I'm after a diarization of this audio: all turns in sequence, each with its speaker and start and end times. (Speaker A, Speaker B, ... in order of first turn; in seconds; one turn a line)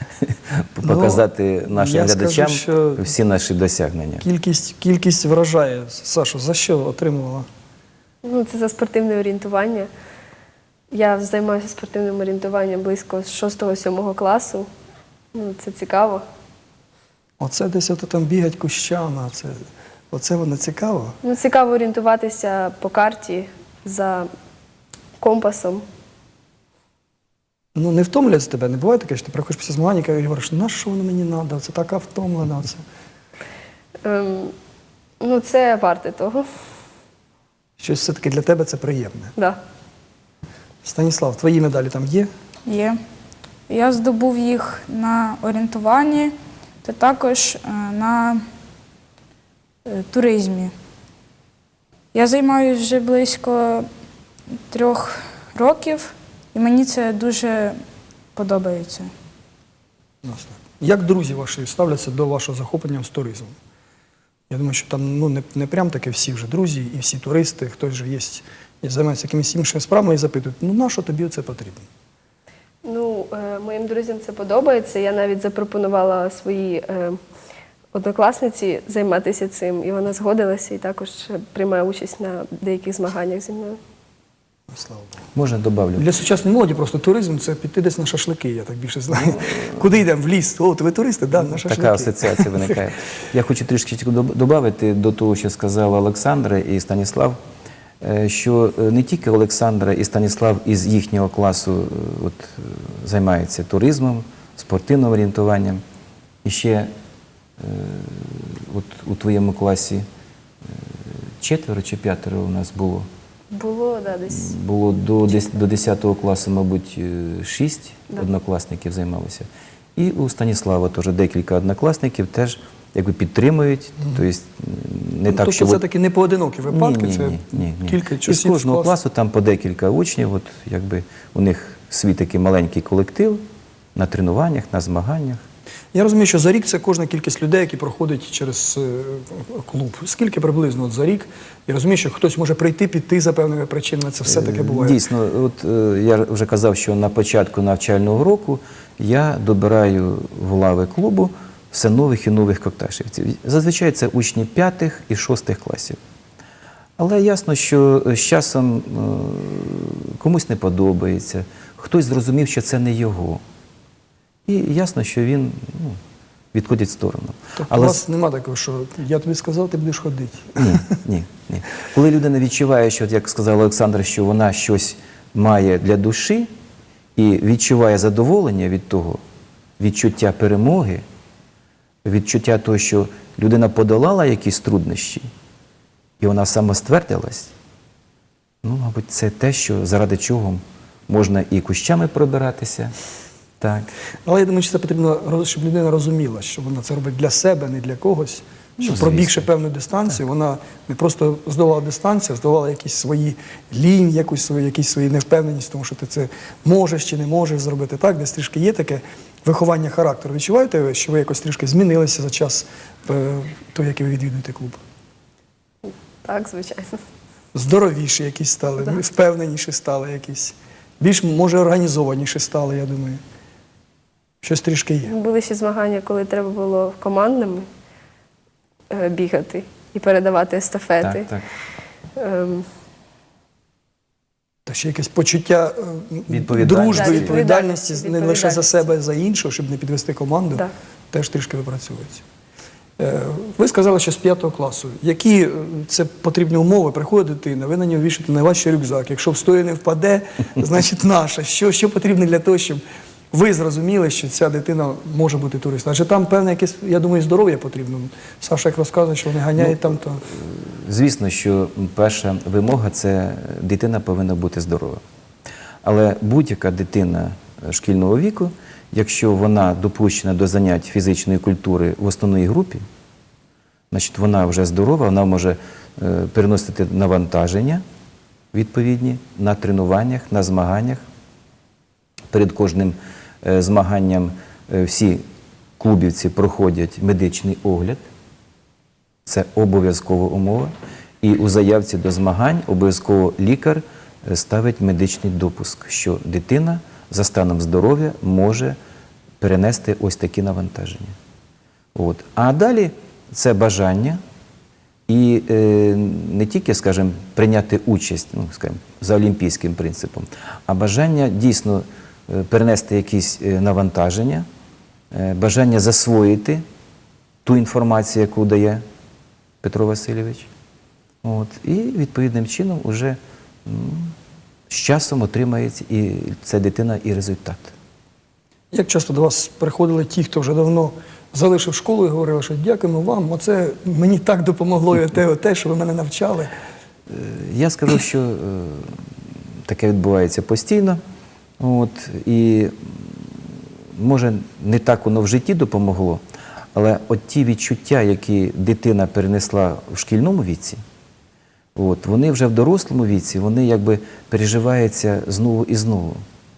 Speaker A: 0.2-4.2
Speaker B: 0.8-3.0
Speaker B: 4.2-7.5
Speaker C: 8.2-9.9
Speaker C: 10.9-14.7
Speaker C: 15.3-16.2
Speaker B: 17.4-19.6
Speaker B: 20.1-21.2
Speaker C: 21.2-24.3
Speaker C: 25.2-25.9
Speaker B: 27.8-32.8
Speaker C: 34.0-34.5
Speaker C: 35.2-36.5
Speaker B: 37.8-39.3
Speaker C: 39.4-39.6
Speaker B: 40.8-42.3
Speaker D: 42.7-43.0
Speaker D: 43.7-48.4
Speaker D: 49.9-50.7
Speaker D: 52.1-53.9
Speaker D: 54.7-57.8
Speaker D: 58.4-59.1
Speaker B: 60.2-63.5
Speaker B: 64.5-71.8
Speaker C: 72.8-77.2
Speaker C: 77.9-83.8
Speaker B: 84.7-85.1
Speaker A: 85.3-86.1
Speaker B: 86.0-92.8
Speaker A: 91.4-97.4
Speaker A: 98.0-105.8
Speaker A: 106.4-106.9
Speaker A: 107.6-110.0
Speaker A: 110.7-113.1
Speaker C: 113.5-114.5
Speaker A: 114.3-125.8
Speaker B: 125.3-128.9
Speaker A: 126.7-133.4
Speaker A: 133.9-135.4
Speaker B: 135.9-145.0
Speaker A: 144.3-156.0
Speaker A: 157.0-163.4
Speaker A: 164.5-166.0
Speaker A: 166.5-168.0
Speaker B: 167.6-170.8
Speaker A: 170.6-176.5
Speaker A: 177.2-179.2
Speaker A: 179.8-181.0
Speaker A: 182.1-185.3
Speaker A: 186.2-187.5
Speaker A: 188.6-192.9
Speaker A: 193.6-193.9
Speaker B: 194.3-214.8
Speaker A: 198.8-199.5
Speaker C: 215.9-217.0
Speaker B: 217.5-223.2
Speaker B: 224.4-225.1
Speaker C: 225.1-227.7
Speaker C: 228.9-231.3
Speaker A: 231.0-231.4
Speaker C: 232.2-232.7
Speaker B: 234.7-242.2
Speaker A: 236.3-237.4
Speaker C: 236.9-238.8
Speaker B: 243.0-252.8
Speaker B: 253.3-260.2
Speaker A: 259.6-265.0
Speaker A: 265.8-272.8
Speaker A: 273.9-277.8
Speaker A: 278.5-281.0
Speaker A: 282.3-285.2
Speaker A: 285.8-288.0
Speaker A: 289.3-298.8
Speaker A: 299.4-301.1
Speaker A: 301.9-304.2
Speaker A: 305.1-314.5
Speaker A: 315.1-316.6
Speaker A: 317.4-318.8
Speaker A: 319.6-320.5
Speaker A: 321.2-324.1
Speaker A: 324.7-327.7
Speaker B: 328.7-336.5
Speaker A: 337.1-339.0
Speaker A: 339.6-341.0
Speaker A: 341.6-346.2
Speaker A: 346.7-350.8
Speaker A: 351.8-356.2